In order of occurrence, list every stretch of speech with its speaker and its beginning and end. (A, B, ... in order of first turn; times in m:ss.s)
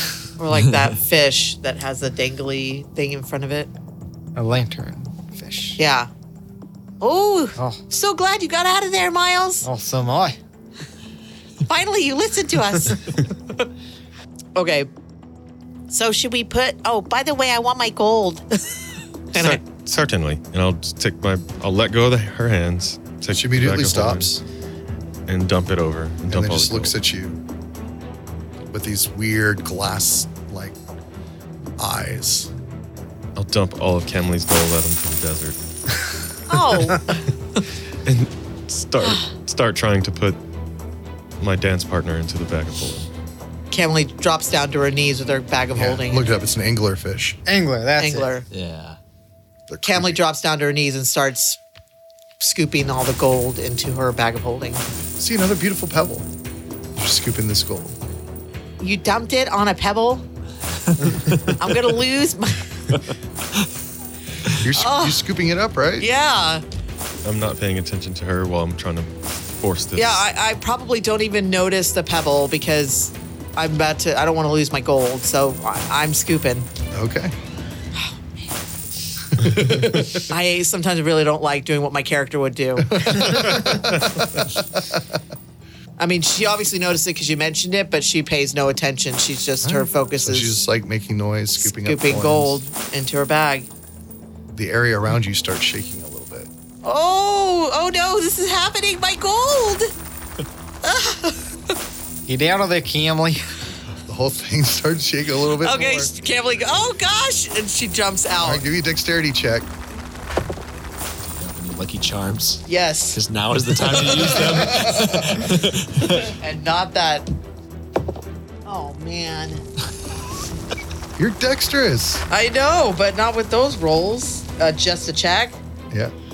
0:00.4-0:03.7 A
0:04.4-0:05.8 B
0:05.8-0:06.1 A
0:07.0-0:09.6 C
0:07.6-0:07.8 B
0:09.6-0:10.4 B
0:11.7-0:13.2 C
0:14.6-0:14.9 A
0:15.9-0:18.4 C
0:19.4-0:24.3 D
0:23.3-0:24.4 E
0:25.3-0:27.0 D
0:26.3-0:27.4 E
0:28.7-0:30.8 E
0:31.8-0:32.5 E
0:33.4-0:35.6 D
0:36.5-0:37.3 A
0:38.0-0:40.4 D
0:41.4-0:43.1 D
0:43.7-0:46.3 A
0:45.7-0:47.4 E
0:47.5-0:48.3 B
0:48.0-0:48.5 A
0:48.5-0:49.0 F
0:49.7-0:50.2 E
0:49.8-0:51.6 A
0:52.4-0:54.8 A
0:55.2-0:56.3 E
0:57.0-0:58.0 E
0:58.8-1:00.2 C
1:00.9-1:01.6 F
1:01.6-1:02.6 C
1:04.6-1:06.1 E
1:04.8-1:05.2 A
1:06.0-1:06.6 A
1:07.2-1:10.3 D
1:10.0-1:16.7 A
1:16.9-1:17.4 E
1:19.3-1:20.3 E
1:20.3-1:23.4 A
1:22.9-1:25.2 E
1:26.0-1:30.6 A
1:29.6-1:32.6 E
1:31.6-1:33.7 A
1:34.5-1:36.5 E
1:36.9-1:38.6 A
1:37.8-1:39.8 C
1:41.0-1:41.4 A
1:42.3-1:43.5 B
1:44.1-1:46.1 E
1:45.6-1:48.6 A
1:48.4-1:49.7 E
1:51.2-1:56.4 F
1:52.7-1:53.2 A
1:53.8-1:54.8 A
1:54.6-1:55.2 E
1:56.2-1:57.3 A
1:58.7-1:59.6 A
2:01.2-2:02.2 E
2:02.3-2:05.6 A